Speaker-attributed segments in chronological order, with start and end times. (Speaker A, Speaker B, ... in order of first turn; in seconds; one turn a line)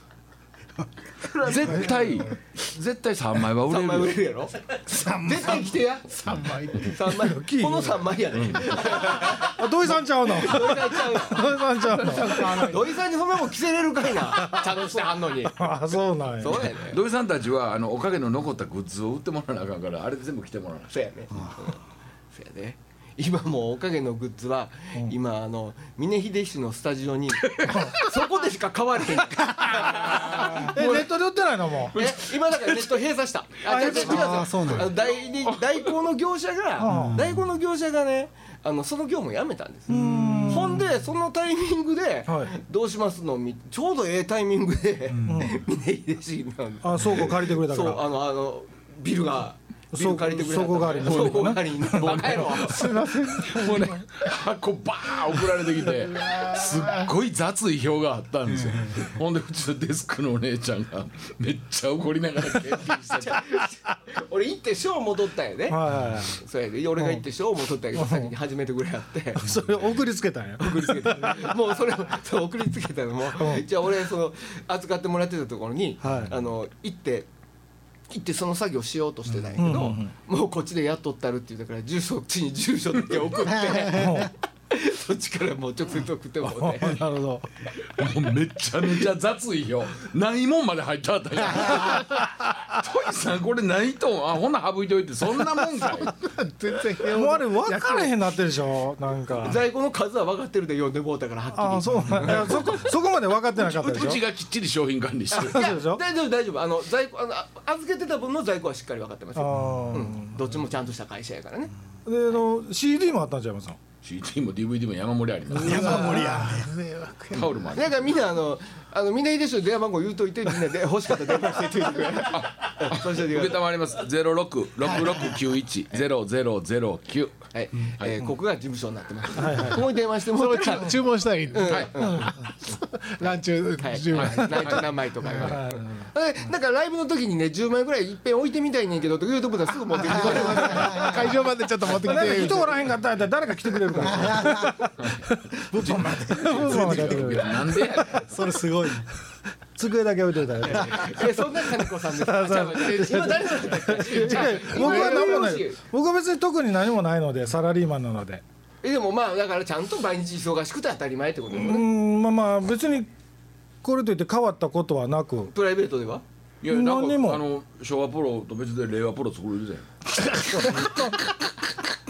Speaker A: 1.3-2.2
Speaker B: 1.4-4.1
Speaker A: 3.7-15.7
Speaker C: 4.9-5.7
Speaker D: 6.3-6.9
Speaker E: 7.3-8.0
Speaker B: 8.3-9.0
Speaker E: 9.2-12.7
Speaker D: 12.0-12.9
Speaker E: 14.3-14.9
Speaker E: 15.4-16.6
Speaker A: 16.4-17.0
Speaker B: 16.4-20.9
Speaker A: 20.9-21.8
Speaker A: 22.3-30.9
Speaker B: 27.4-28.1
Speaker B: 29.7-31.1
Speaker E: 30.1-32.0
Speaker A: 31.9-53.0
Speaker B: 31.9-32.9
Speaker E: 33.6-34.8
Speaker C: 34.0-34.9
Speaker E: 36.8-37.2
Speaker C: 36.8-37.4
Speaker E: 39.9-40.9
Speaker E: 42.3-42.5
Speaker C: 45.1-45.5
Speaker E: 45.2-45.6
Speaker E: 46.8-48.0
Speaker E: 49.9-52.5
Speaker B: 51.0-63.4
Speaker D: 52.6-54.0
Speaker D: 56.1-56.9
Speaker C: 58.5-58.9
Speaker A: 63.2-65.8
Speaker E: 65.7-66.4
Speaker A: 66.4-69.5
Speaker E: 67.0-67.2
Speaker E: 67.9-68.3
Speaker E: 69.3-71.6
Speaker A: 70.6-77.3
Speaker E: 73.4-73.7
Speaker E: 76.0-76.4
Speaker A: 78.1-87.0
Speaker E: 79.6-80.1
Speaker C: 83.6-84.2
Speaker E: 83.9-84.3
Speaker E: 86.6-87.5
Speaker B: 88.0-96.2
Speaker D: 96.1-98.3
Speaker E: 97.0-99.6
Speaker A: 99.4-102.8
Speaker E: 101.5-104.2
Speaker B: 103.5-105.6
Speaker A: 105.3-111.7
Speaker E: 105.4-106.0
Speaker E: 109.3-110.3
Speaker E: 112.0-113.8
Speaker B: 114.0-116.2
Speaker C: 115.5-116.7
Speaker D: 115.5-117.7
Speaker E: 115.6-116.3
Speaker B: 117.3-118.2
Speaker A: 117.7-123.6
Speaker B: 122.3-127.3
Speaker A: 127.5-141.2
Speaker E: 129.3-129.9
Speaker D: 130.2-135.6
Speaker E: 132.0-132.5
Speaker B: 134.1-134.8
Speaker E: 135.3-136.1
Speaker D: 140.1-142.8
Speaker C: 140.6-141.2
Speaker E: 142.0-148.2
Speaker A: 142.1-142.5
Speaker C: 144.0-144.7
Speaker B: 145.0-148.3
Speaker D: 145.9-147.3
Speaker C: 148.3-149.1
Speaker E: 149.8-151.3
Speaker A: 150.6-155.8
Speaker E: 152.1-158.4
Speaker D: 154.7-155.3
Speaker A: 158.8-161.9
Speaker E: 161.5-163.1
Speaker E: 163.8-165.5
Speaker A: 165.5-166.2
Speaker B: 166.6-169.8
Speaker E: 166.7-167.4
Speaker E: 170.4-171.1